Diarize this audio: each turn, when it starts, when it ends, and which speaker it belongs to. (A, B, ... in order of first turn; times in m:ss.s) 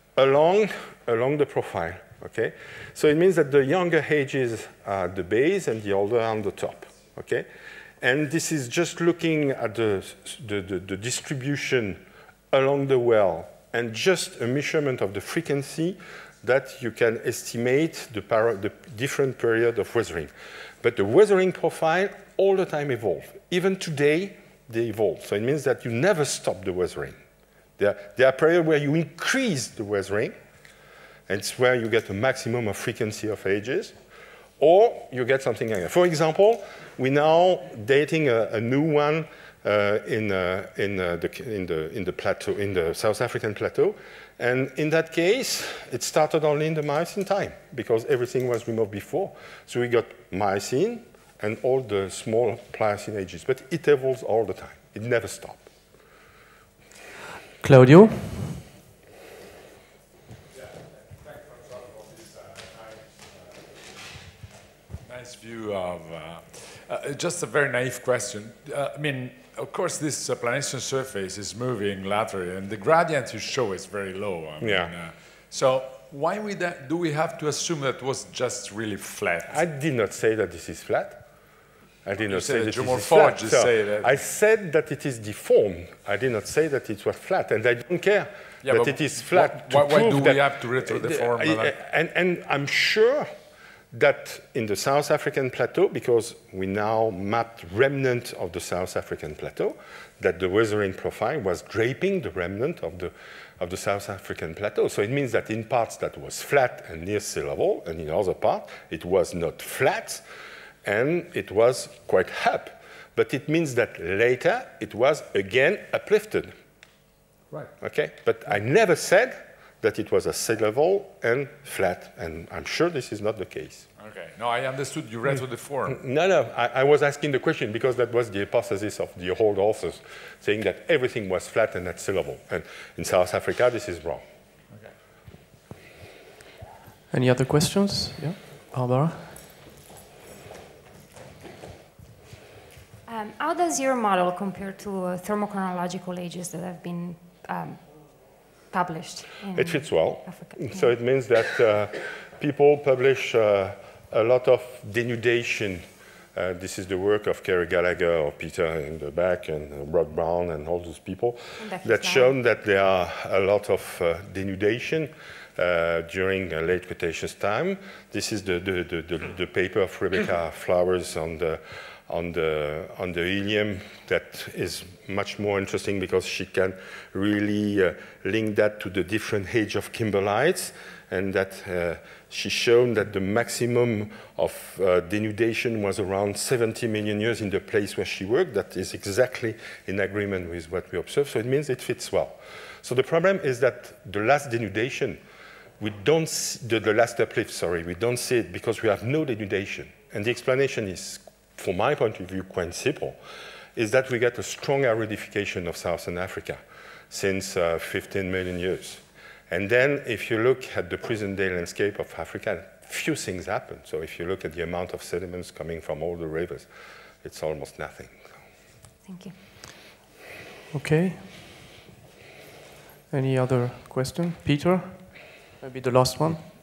0:00.2-0:07.5 A
0:08.0-0:20.3 A
0:20.8-0:27.2 A
0:27.8-0:30.4 A
0:31.3-0:34.0 A
0:34.6-0:55.7 A
0:57.6-0:58.6 B
1:05.1-1:19.6 C
1:14.6-1:15.0 A
1:19.5-1:21.2 A
1:22.0-1:33.3 A
1:22.3-1:24.2 C
1:28.6-1:31.8 C
1:33.9-1:50.2 A
1:50.8-1:56.5 A
1:57.8-2:03.9 A
2:04.0-2:06.0 C
2:05.9-2:14.2 A
2:17.1-2:19.4 B
2:23.1-2:31.0 D
2:29.5-3:15.2 A
2:41.6-2:42.4 D
3:15.8-3:23.2 A
3:23.8-3:26.6 A
3:27.1-3:36.7 A
3:37.2-3:38.2 A
3:39.0-3:39.4 D
3:40.7-3:41.6 B
3:43.1-3:46.5 B